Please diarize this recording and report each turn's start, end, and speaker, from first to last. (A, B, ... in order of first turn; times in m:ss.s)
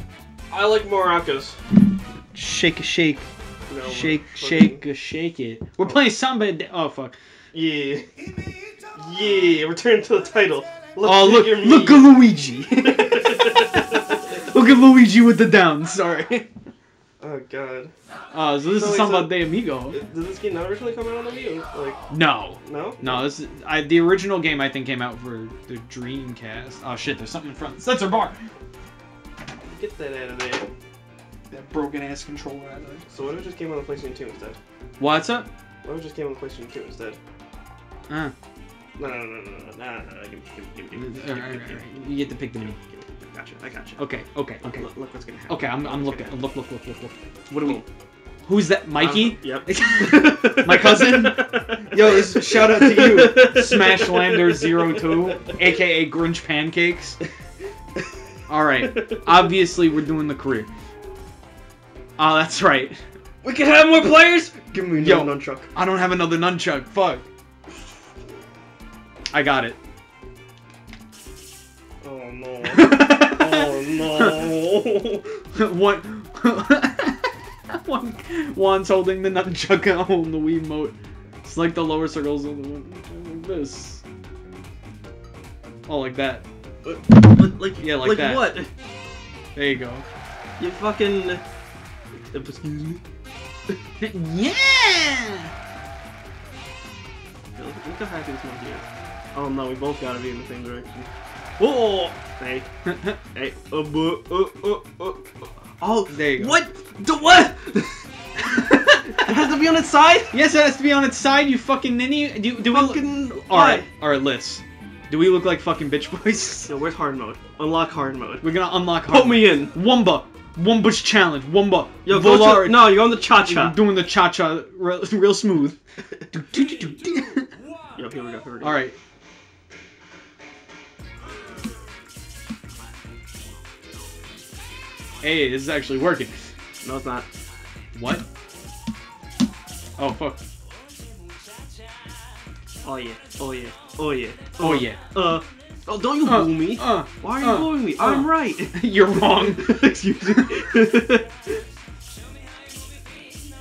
0:00.5-0:01.6 A
0:02.3-0:03.2 B
0:03.7-0:04.8 A
0:03.8-0:07.1 B
0:07.5-0:08.1 A
0:09.0-0:12.2 A
0:11.0-0:16.5 B
0:12.8-0:14.2 A
0:17.2-0:17.9 A
0:18.3-0:20.0 B
0:18.7-0:22.0 A
0:22.1-0:28.4 B
0:22.6-0:23.3 A
0:29.6-0:30.7 A
0:31.5-0:33.0 B
0:33.1-0:34.6 A
0:35.0-0:35.5 B
0:35.8-0:37.2 A
0:39.0-0:42.0 A
0:40.9-0:42.8 B
0:42.6-0:44.0 A
0:44.0-0:44.8 B
0:44.6-0:46.3 A
0:45.5-0:47.8 B
0:47.5-0:47.8 A
0:48.4-0:57.2 B
0:49.0-0:55.0 A
0:58.5-1:00.7 B
0:58.9-0:59.2 A
1:02.2-1:03.0 B
1:03.4-1:05.7 A
1:05.0-1:07.2 B
1:09.3-1:09.8 B
1:12.0-1:15.3 A
1:12.6-1:14.3 B
1:15.5-1:24.0 B
1:25.9-1:26.4 B
1:26.8-1:28.7 A
1:27.8-1:28.5 B
1:29.6-1:30.0 B
1:30.6-1:31.4 A
1:32.2-1:33.0 A
1:34.0-1:35.5 B
1:37.6-1:42.7 A
1:42.8-1:43.2 B
1:43.3-1:47.9 A
1:46.1-1:46.6 B
1:49.1-1:50.3 A
1:50.3-1:56.7 B
1:52.6-1:53.9 A
1:56.6-1:58.5 A
1:58.4-2:05.8 B
1:59.1-1:59.8 A
2:02.0-2:03.8 A
2:06.3-2:07.5 B
2:07.9-2:08.8 A
2:08.6-2:09.0 B
2:15.2-2:16.3 B
2:16.8-2:17.2 A
2:17.9-2:18.2 B
2:20.0-2:20.4 B
2:22.8-2:31.3 A
2:24.6-2:25.0 B
2:26.2-2:30.4 B